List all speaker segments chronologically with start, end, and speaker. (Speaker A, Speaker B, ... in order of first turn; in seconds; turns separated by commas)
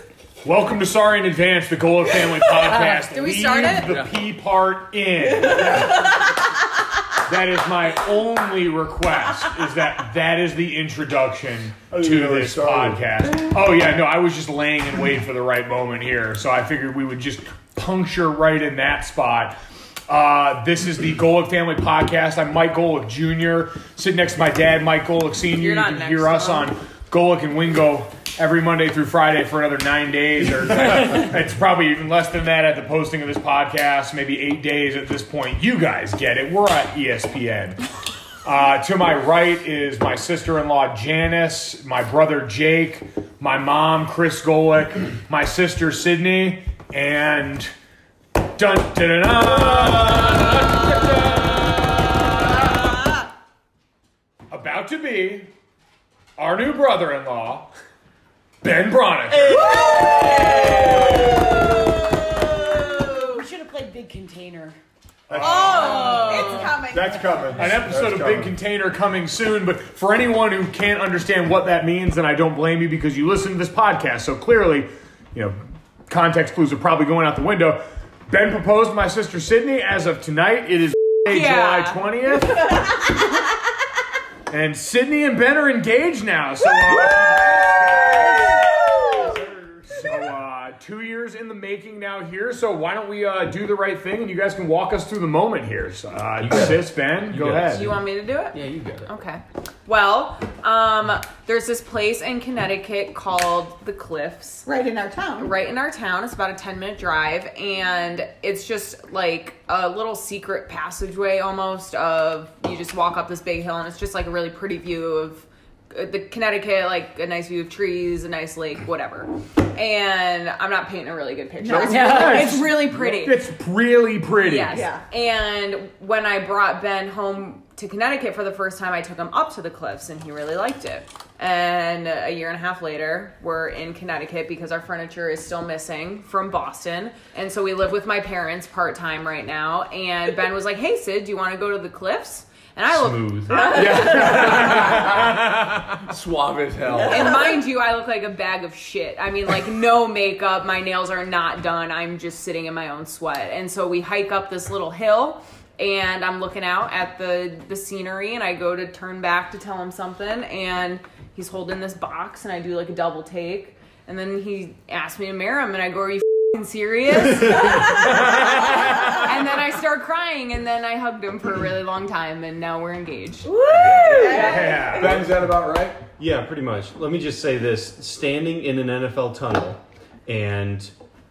Speaker A: 0.4-5.9, Speaker B: 2.7-4.0, Speaker C: 3.8-4.1, Speaker D: 5.4-6.1, Speaker A: 7.3-19.6, Speaker D: 11.9-13.0, Speaker A: 20.1-37.8, Speaker B: 25.5-26.7, Speaker A: 38.4-47.7, Speaker A: 48.6-52.9, Speaker A: 54.5-55.5, Speaker A: 56.4-57.7, Speaker A: 58.6-59.8, Speaker E: 59.3-59.6, Speaker F: 59.5-61.7, Speaker B: 59.6-60.7, Speaker G: 59.8-60.1, Speaker E: 60.3-60.8, Speaker G: 61.5-64.8, Speaker A: 65.3-66.0, Speaker D: 65.3-66.0, Speaker B: 65.4-66.8, Speaker F: 65.5-67.4, Speaker G: 65.6-67.2, Speaker D: 66.9-68.5, Speaker A: 67.5-83.0, Speaker B: 81.3-82.0, Speaker A: 84.5-88.7, Speaker E: 89.1-90.0, Speaker A: 89.9-97.9, Speaker E: 96.4-99.1, Speaker B: 97.7-104.7, Speaker F: 104.7-105.5, Speaker B: 105.4-123.4, Speaker F: 121.6-122.6, Speaker A: 121.7-124.8, Speaker G: 122.0-122.7, Speaker B: 124.3-145.0, Speaker F: 124.7-125.0, Speaker E: 142.9-143.8, Speaker F: 143.5-144.3, Speaker C: 143.7-147.3, Speaker A: 144.0-145.4, Speaker B: 147.1-175.0, Speaker F: 147.1-147.5, Speaker A: 167.5-169.3, Speaker F: 173.7-175.2, Speaker E: 173.8-174.4, Speaker A: 174.3-175.3, Speaker D: 174.9-176.0, Speaker E: 176.2-180.9